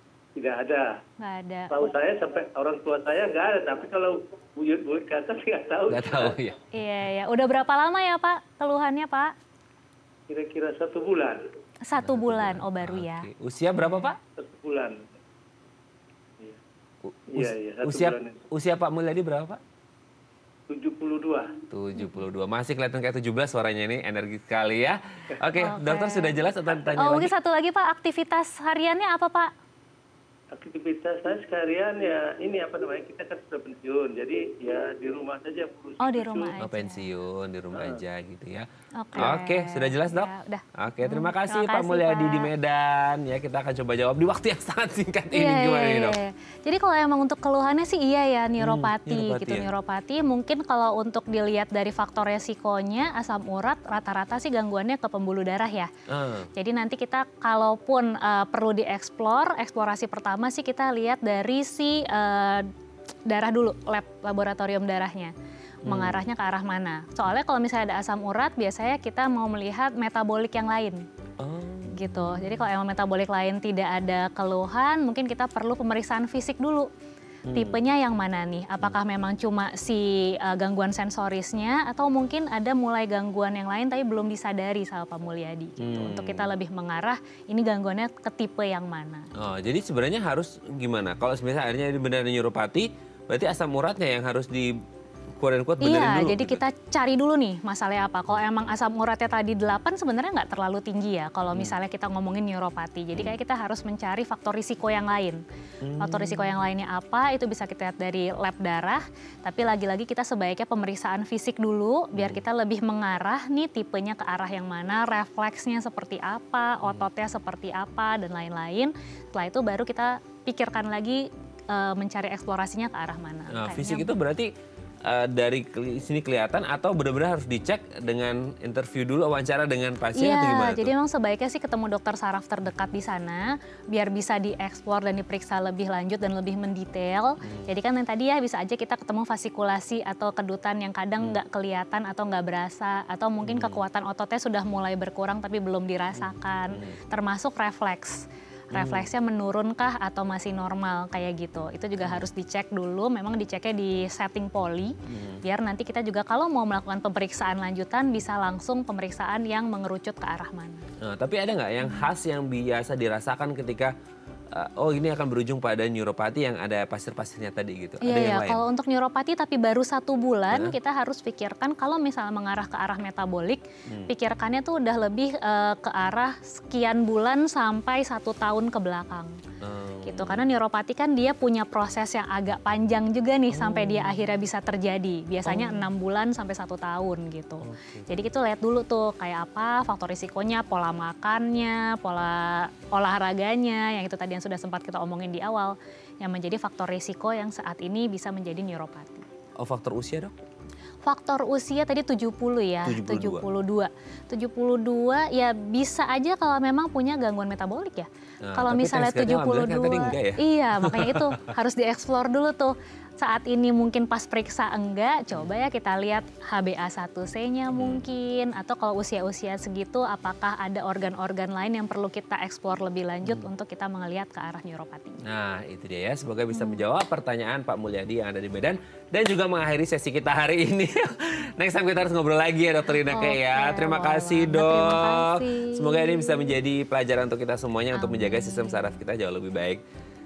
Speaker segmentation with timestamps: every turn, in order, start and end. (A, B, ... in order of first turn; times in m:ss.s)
0:00.4-0:01.0 A
0:01.2-0:01.8 B
0:01.7-0:06.4 A
0:05.9-0:06.6 C
0:06.7-0:09.3 B
0:10.3-0:11.4 A
0:11.8-0:14.1 B
0:12.0-0:14.2 C
0:14.4-0:15.0 A
0:17.0-0:19.6 C
0:17.3-0:18.4 A
0:20.7-0:21.6 A
0:21.7-0:27.3 C
0:25.6-0:26.4 B
0:27.0-0:29.5 B
0:30.5-0:36.5 A
0:36.0-0:37.1 B
0:36.6-0:46.2 C
0:39.0-0:42.5 B
0:45.3-0:55.9 B
0:48.6-0:49.7 C
0:56.1-0:56.5 C
0:56.5-1:02.7 B
1:03.3-1:05.3 B
1:05.8-1:06.2 C
1:05.8-1:11.0 B
1:11.4-1:12.6 C
1:11.9-1:16.9 B
1:17.5-1:17.8 C
1:17.5-1:29.3 B
1:25.8-1:26.5 C
1:29.3-1:34.8 C
1:35.4-1:36.6 C
1:35.8-1:45.4 B
1:45.8-1:46.6 C
1:46.0-2:04.1 B
1:52.1-1:52.4 C
2:03.5-2:04.5 C
2:05.0-2:10.9 C
2:10.1-2:40.8 B
2:17.4-2:17.7 C
2:23.4-2:23.8 C
2:26.2-2:27.0 C
2:28.7-2:29.1 C
2:32.0-2:32.3 C
2:35.1-2:35.4 C
2:41.0-2:43.9 C
2:41.8-2:42.1 B
2:44.5-2:48.6 C
2:48.0-2:59.4 B
2:50.5-2:50.8 C
2:53.9-2:54.1 C
2:59.6-3:00.5 C
3:00.0-3:19.2 B
3:03.5-3:04.4 C
3:05.4-3:05.9 C
3:07.6-3:08.1 C
3:19.6-3:20.4 C
3:21.0-3:45.2 B
3:22.8-3:23.5 C
3:28.5-3:31.5 C
3:37.7-3:38.0 C
3:45.2-3:59.8 C
3:46.5-3:46.8 B
3:53.0-3:56.6 B
3:57.9-3:59.0 B